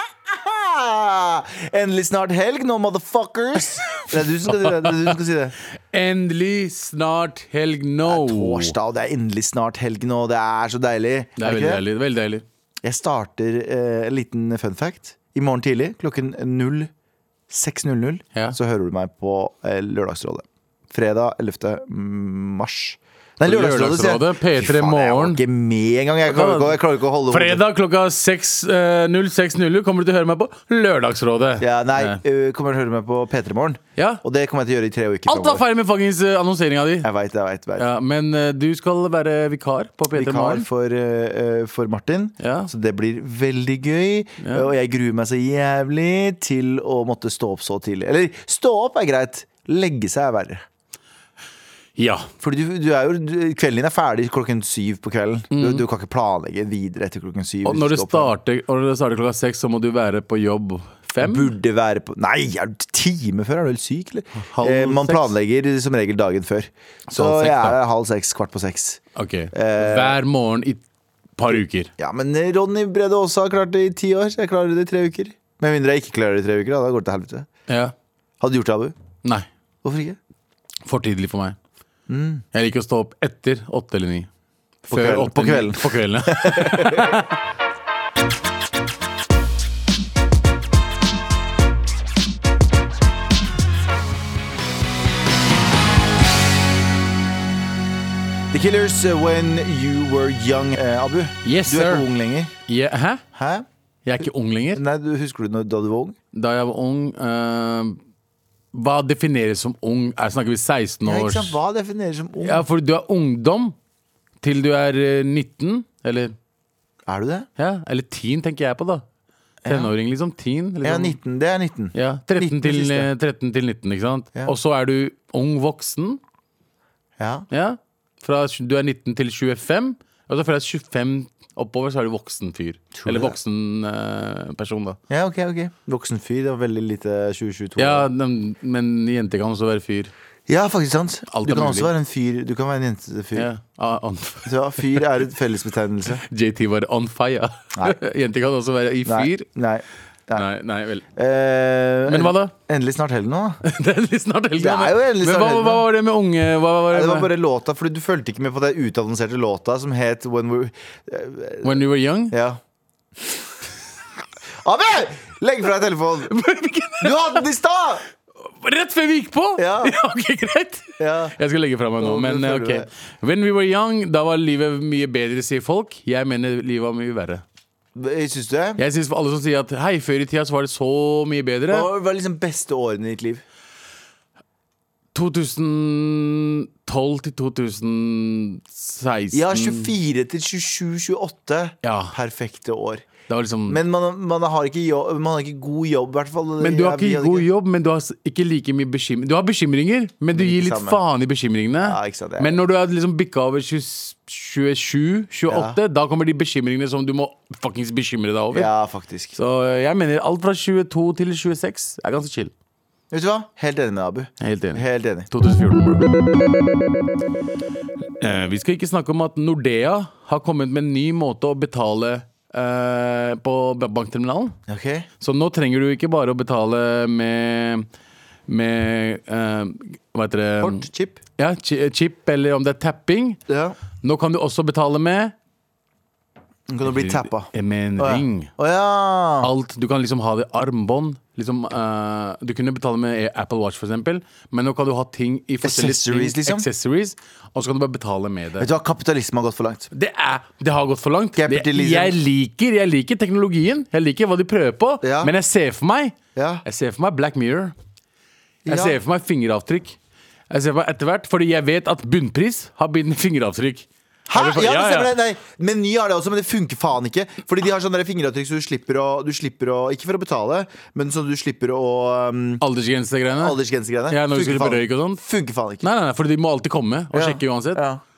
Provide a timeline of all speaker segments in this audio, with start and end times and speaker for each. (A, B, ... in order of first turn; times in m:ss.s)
0:00.3-0:05.5 A
0:04.0-0:05.1 B
0:05.9-0:08.8 B
0:08.1-0:11.8 A
0:11.4-0:12.4 B
0:12.8-0:16.9 A
0:17.5-0:27.6 A
0:23.4-0:25.4 B
0:26.2-0:32.2 B
0:31.6-0:35.6 A
0:34.0-0:34.2 B
0:35.2-0:37.1 B
0:37.0-0:37.9 A
0:37.8-0:40.7 B
0:40.1-0:50.6 A
0:42.4-0:42.7 B
0:44.4-0:44.7 B
0:52.0-0:52.3 B
0:52.4-0:58.3 A
0:55.5-0:55.8 B
0:57.6-1:01.5 B
1:01.2-1:10.2 A
1:04.3-1:05.3 B
1:07.1-1:07.8 B
1:09.2-1:10.8 B
1:11.4-1:11.9 B
1:11.5-1:17.5 A
1:17.7-1:17.9 B
1:18.4-1:18.9 A
1:19.8-1:20.2 A
1:20.8-1:21.6 B
1:22.1-1:22.4 A
1:22.5-1:24.3 B
1:24.9-1:27.2 A
1:24.9-1:27.3 B
1:38.5-1:42.5 A
1:41.4-1:42.1 B
1:42.7-1:43.2 B
1:43.3-1:43.6 A
1:44.0-1:44.8 B
1:44.7-1:46.2 A
1:46.3-1:48.0 B
1:48.7-1:51.6 B
1:51.0-1:52.6 A
1:52.4-1:53.7 B
1:54.4-1:56.3 B
1:57.0-1:57.5 A
1:57.6-1:59.0 B
1:59.6-1:59.9 A
1:59.6-2:01.2 B
2:00.8-2:03.1 A
2:01.9-2:06.2 B
2:07.2-2:07.5 A
2:07.5-2:15.0 B
2:12.9-2:13.4 A
2:15.1-2:18.1 A
2:17.8-2:20.1 B
2:20.5-2:23.5 A
2:21.3-2:21.9 B
2:23.3-2:24.5 B
2:24.4-2:26.2 A
2:26.2-2:29.5 B
2:29.0-2:30.5 A
2:30.3-2:31.0 B
2:31.1-2:33.6 A
2:32.1-2:32.5 B
2:33.6-2:37.3 B
2:34.6-2:35.8 A
2:36.9-2:42.6 A
2:41.6-2:42.4 B
2:44.6-2:46.3 A
2:46.3-2:47.4 B
2:47.0-2:48.0 A
2:48.4-2:57.4 B
2:49.6-2:49.9 A
2:51.0-2:51.4 A
2:52.0-2:52.9 A
2:58.0-2:58.8 A
2:58.8-3:01.9 B
3:01.7-3:03.4 A
3:05.1-3:09.9 B
3:09.3-3:13.1 A
3:11.8-3:12.2 B
3:13.3-3:13.8 B
3:13.7-3:17.5 A
3:16.6-3:28.7 B
3:20.3-3:21.0 A
3:21.8-3:22.5 A
3:25.5-3:25.8 A
3:28.5-3:29.4 A
3:29.3-3:32.5 B
3:33.1-3:35.3 A
3:34.4-3:36.1 B
3:38.2-3:44.6 B
3:44.7-3:45.1 A
3:45.2-3:47.9 B
3:48.5-3:50.8 B
3:50.6-3:51.2 A
3:51.4-3:53.4 B
3:53.5-3:53.8 A
3:54.0-3:55.3 B
3:56.7-3:59.5 A
3:56.8-3:58.5 B
3:59.4-4:08.7 B
4:05.6-4:06.6 A
4:08.6-4:09.9 A
4:09.9-4:17.7 B
4:11.4-4:12.2 A
4:15.0-4:15.3 A
4:16.3-4:16.6 A
4:18.6-4:19.0 A
4:18.6-4:20.0 B
4:20.5-4:25.1 B
4:24.3-4:32.6 A
4:32.6-4:33.6 B
4:33.4-4:35.9 A
4:34.1-4:35.2 B
4:35.8-4:37.8 B
4:37.1-4:38.0 A